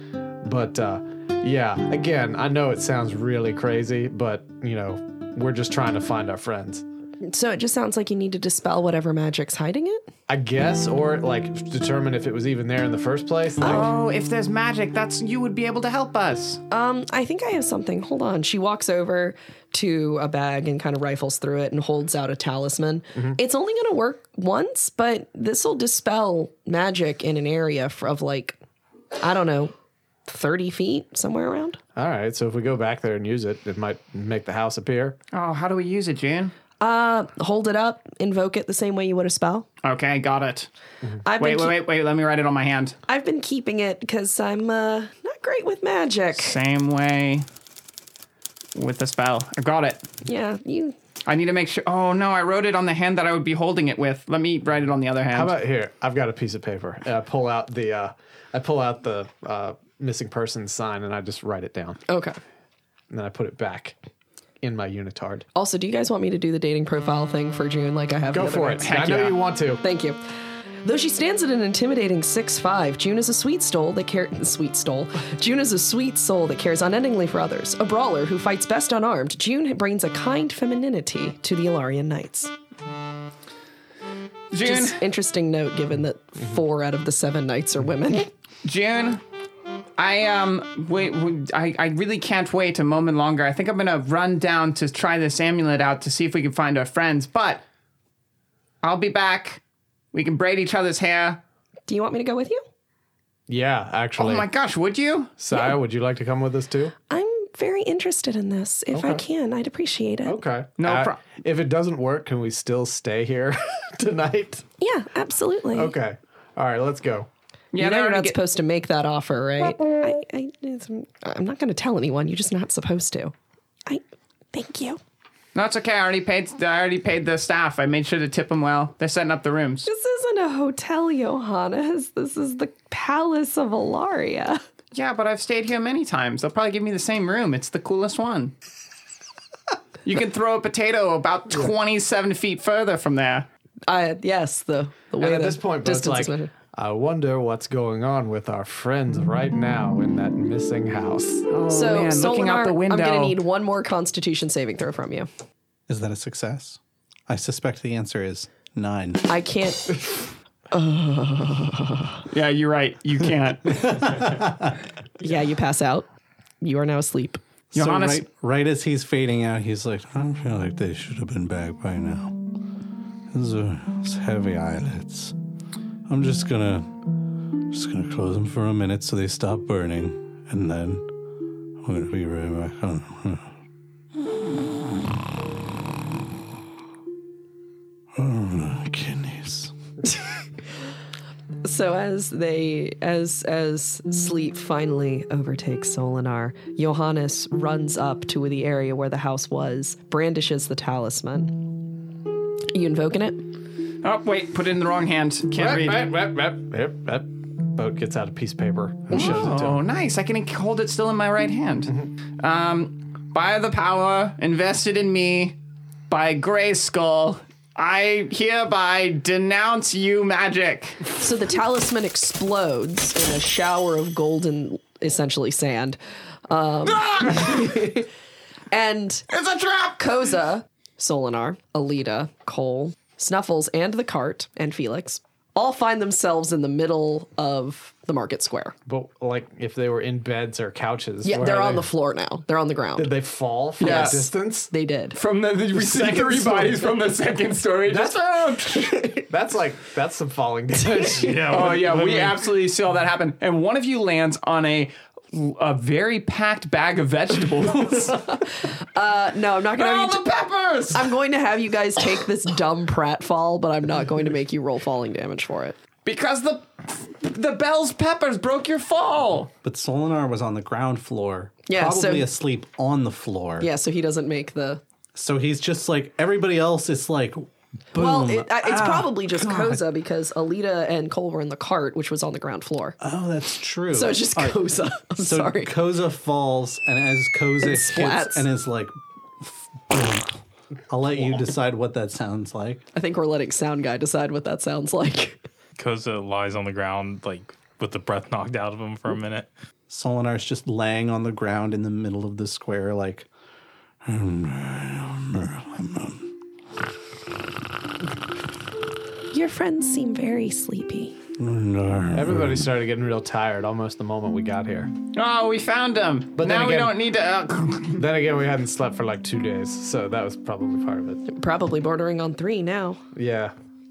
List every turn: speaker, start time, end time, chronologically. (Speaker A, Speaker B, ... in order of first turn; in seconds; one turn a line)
Speaker A: 0.4-6.8
Speaker B: 7.2-10.1
Speaker A: 10.3-13.9
Speaker C: 13.6-16.6
Speaker B: 13.6-13.9
Speaker B: 16.7-28.6
Speaker B: 29.2-29.7
Speaker B: 30.3-31.8
Speaker A: 31.9-35.1
Speaker C: 35.3-36.5
Speaker B: 36.8-39.7
Speaker C: 39.8-40.7
Speaker B: 41.2-41.8
Speaker C: 41.4-43.0
Speaker B: 43.1-46.5
Speaker C: 46.4-47.5
Speaker C: 48.7-50.1
Speaker B: 50.2-50.9
Speaker C: 51.2-55.5
Speaker A: 55.3-62.0
Speaker B: 62.1-62.4
Speaker A: 63.1-64.0
Speaker A: 64.6-65.5
Speaker B: 65.5-69.0
Speaker A: 68.3-69.8
Speaker C: 68.8-69.4
Speaker B: 69.8-70.2
Speaker B: 70.8-82.5
Speaker C: 84.5-85.0
Speaker B: 84.6-88.3
Speaker C: 88.6-89.2
Speaker C: 90.0-97.6
Speaker C: 98.8-99.6
Speaker C: 100.1-101.4
Speaker B: 101.9-102.6
Speaker A: 103.5-104.5
Speaker C: 104.2-105.3
Speaker A: 105.4-106.9
Speaker B: 107.1-110.4
Speaker A: 108.9-109.2
Speaker A: 110.2-114.6
Speaker C: 110.8-111.2
Speaker B: 114.8-115.9
Speaker A: 115.7-117.3
Speaker C: 117.7-118.3
Speaker B: 117.7-123.3
Speaker B: 124.5-125.0
Speaker C: 125.5-129.9
Speaker B: 129.8-134.6
Speaker C: 134.9-138.5
Speaker C: 140.0-143.5
Speaker B: 143.9-146.5
Speaker A: 145.2-151.5
Speaker C: 151.5-153.4
Speaker B: 151.7-155.3
Speaker D: 155.9-159.3
Speaker B: 159.3-162.2
Speaker C: 162.3-164.3
Speaker D: 164.1-164.7
Speaker B: 165.2-166.1
Speaker B: 166.6-167.4
Speaker C: 167.7-168.2
Speaker D: 167.7-172.3
Speaker D: 173.3-175.3
Speaker D: 176.1-177.0
Speaker D: 177.7-181.1
Speaker D: 181.8-183.5
Speaker D: 184.5-185.1
Speaker D: 188.1-189.7
Speaker B: 191.6-201.7
Speaker B: 202.7-203.5
Speaker C: 204.0-206.1
Speaker A: 205.5-209.8
Speaker C: 209.1-215.6
Speaker C: 216.1-221.0
Speaker B: 221.2-226.0
Speaker B: 226.5-228.1
Speaker C: 226.9-227.8
Speaker B: 228.7-229.3
Speaker C: 229.3-230.2
Speaker B: 230.0-238.7
Speaker A: 238.8-241.9
Speaker B: 241.2-243.1
Speaker A: 242.9-244.7
Speaker B: 243.8-245.2
Speaker C: 243.8-244.2
Speaker C: 245.1-248.9
Speaker A: 245.7-247.0
Speaker A: 247.9-251.7
Speaker B: 248.9-249.2
Speaker E: 251.1-252.4
Speaker C: 251.5-258.4
Speaker B: 258.2-260.2
Speaker C: 259.8-261.1
Speaker B: 260.9-265.8
Speaker C: 266.1-269.5
Speaker D: 269.6-273.7
Speaker B: 271.7-272.3
Speaker B: 273.6-274.8
Speaker D: 275.1-279.8
Speaker B: 277.9-283.0
Speaker D: 283.0-290.4
Speaker B: 283.9-285.7
Speaker B: 287.6-288.4
Speaker D: 290.9-292.8
Speaker B: 292.9-295.4
Speaker E: 295.8-299.5
Speaker D: 299.9-303.3
Speaker D: 304.0-306.3
Speaker B: 309.3-311.1
Speaker D: 311.4-312.7
Speaker A: 312.1-314.9
Speaker C: 315.1-318.0
Speaker A: 316.4-316.9
Speaker A: 317.9-321.2
Speaker B: 321.2-323.0
Speaker A: 323.1-323.5